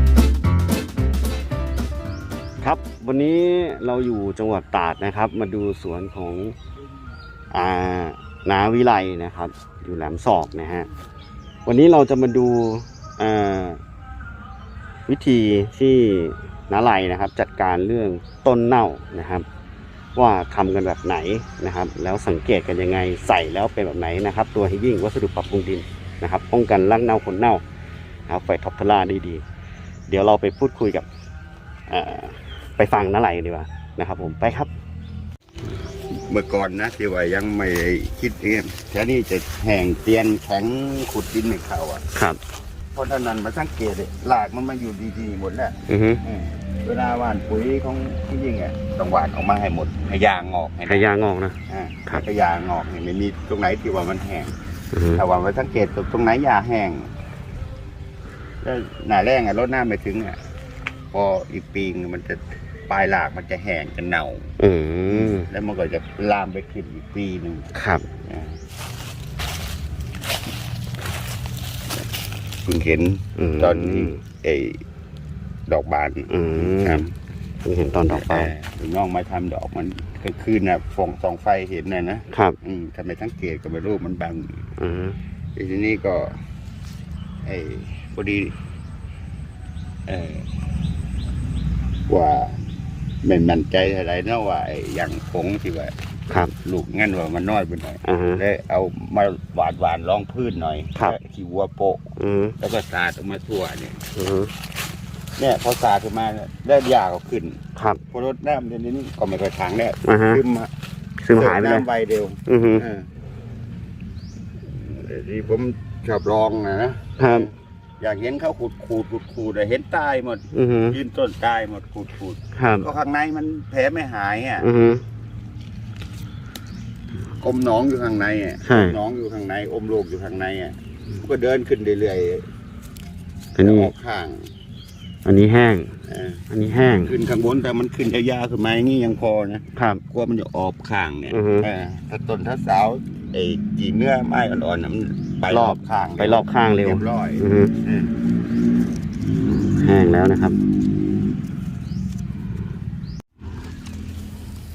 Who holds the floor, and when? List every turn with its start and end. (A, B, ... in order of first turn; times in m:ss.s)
0:02.6-0:06.6 A
0:07.5-0:10.9 A
0:11.6-0:13.8 A
0:15.1-0:19.4 A
0:20.1-0:27.6 A
0:28.3-0:29.4 A
0:30.1-0:31.1 A
0:31.9-0:34.7 A
0:36.1-0:42.0 B
0:42.1-0:42.4 A
0:42.9-0:51.1 B
0:45.9-0:46.2 A
0:50.9-0:51.6 A
0:51.7-0:54.5 B
0:54.9-0:55.2 A
0:55.1-0:57.1 B
0:58.6-1:00.4 B
1:01.1-1:04.5 B
1:04.6-1:05.5 A
1:05.1-1:07.7 B
1:07.7-1:08.1 A
1:08.2-1:08.6 B
1:12.6-1:14.8 B
1:13.4-1:14.2 A
1:15.7-1:17.1 B
1:16.3-1:17.0 A
1:17.6-1:18.5 A
1:18.1-1:24.6 B
1:22.3-1:22.6 A
1:24.8-1:25.2 A
1:25.6-1:26.3 B
1:27.4-1:28.5 B
1:30.1-1:30.5 B
1:32.1-1:32.6 B
1:33.2-1:35.9 B
1:36.6-1:44.0 B
1:38.0-1:38.4 A
1:42.2-1:42.5 A
1:44.1-1:44.5 A
1:45.4-1:50.7 B
1:47.8-1:48.0 A
1:50.0-1:50.4 A
1:51.2-1:51.8 A
1:51.3-1:53.1 B
1:52.5-1:52.8 A
1:54.7-2:04.7 B
1:57.2-1:57.5 A
2:00.5-2:01.0 A
2:02.5-2:02.8 A
2:04.6-2:05.0 A
2:07.3-2:12.4 B
2:08.6-2:09.0 A
2:13.6-2:13.9 A
2:13.6-2:14.5 B
2:15.2-2:15.9 A
2:16.0-2:16.4 B
2:16.5-2:17.1 A
2:17.0-2:28.1 B
2:19.8-2:20.0 A
2:21.3-2:21.7 A
2:25.5-2:27.7 A
2:29.6-2:30.6 A